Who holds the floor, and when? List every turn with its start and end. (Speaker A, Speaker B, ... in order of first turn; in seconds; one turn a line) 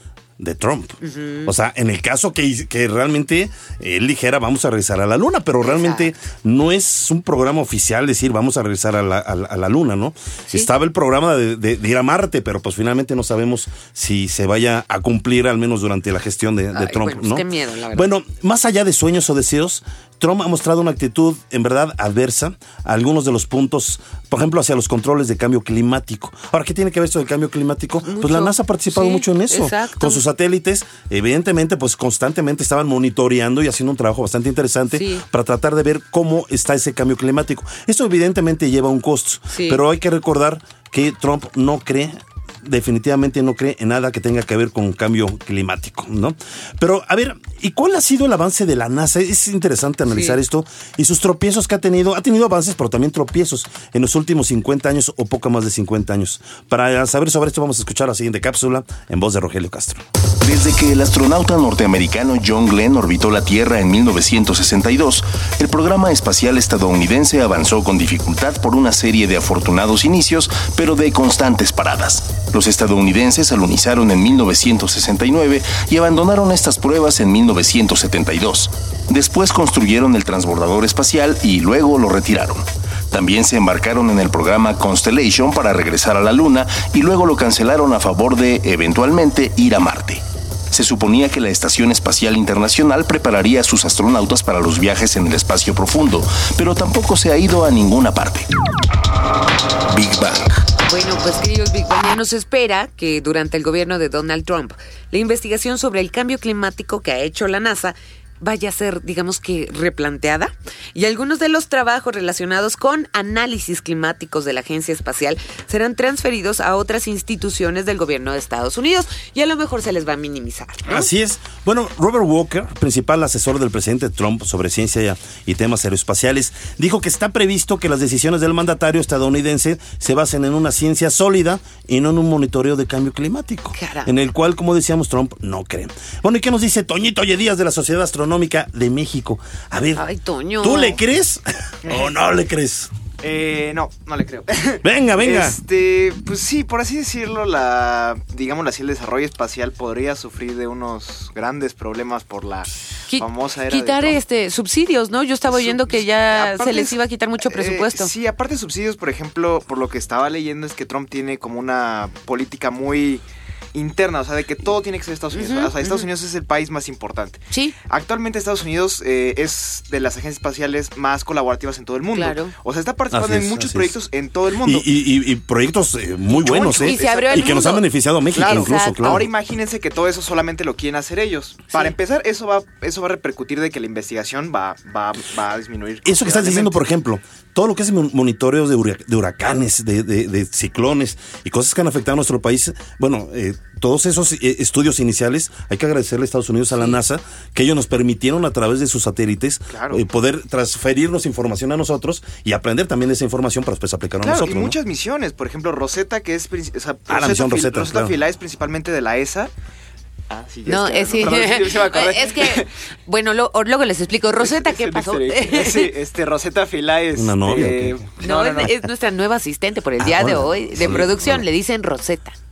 Speaker A: 0.4-60.0
Speaker B: 1.0-1.5
Speaker B: 5.6-6.1
Speaker B: 16.7-18.1
Speaker B: 28.1-30.2
Speaker B: 34.9-35.2
Speaker B: 39.5-39.8
Speaker B: 50.1-50.4
Speaker C: 60.4-98.5
Speaker C: 99.9-100.6
Speaker B: 100.8-121.1
Speaker A: 120.9-140.0
Speaker B: 133.7-134.1
Speaker B: 139.9-141.0
Speaker A: 140.6-142.9
Speaker D: 141.9-142.1
Speaker D: 143.2-154.2
Speaker A: 144.8-145.6
Speaker B: 153.1-158.1
Speaker D: 155.5-174.9
Speaker B: 165.3-166.1
Speaker B: 172.1-172.5
Speaker A: 173.1-173.9
Speaker A: 174.6-179.3
Speaker D: 176.4-177.7
Speaker B: 176.5-179.3
Speaker D: 178.3-186.8
Speaker A: 186.0-204.8
Speaker D: 199.7-200.0
Speaker D: 204.2-209.5
Speaker A: 207.1-208.2
Speaker D: 210.3-212.7
Speaker B: 210.7-215.9
Speaker D: 214.4-218.8
Speaker A: 217.2-218.1
Speaker B: 218.2-222.3
Speaker A: 220.0-221.5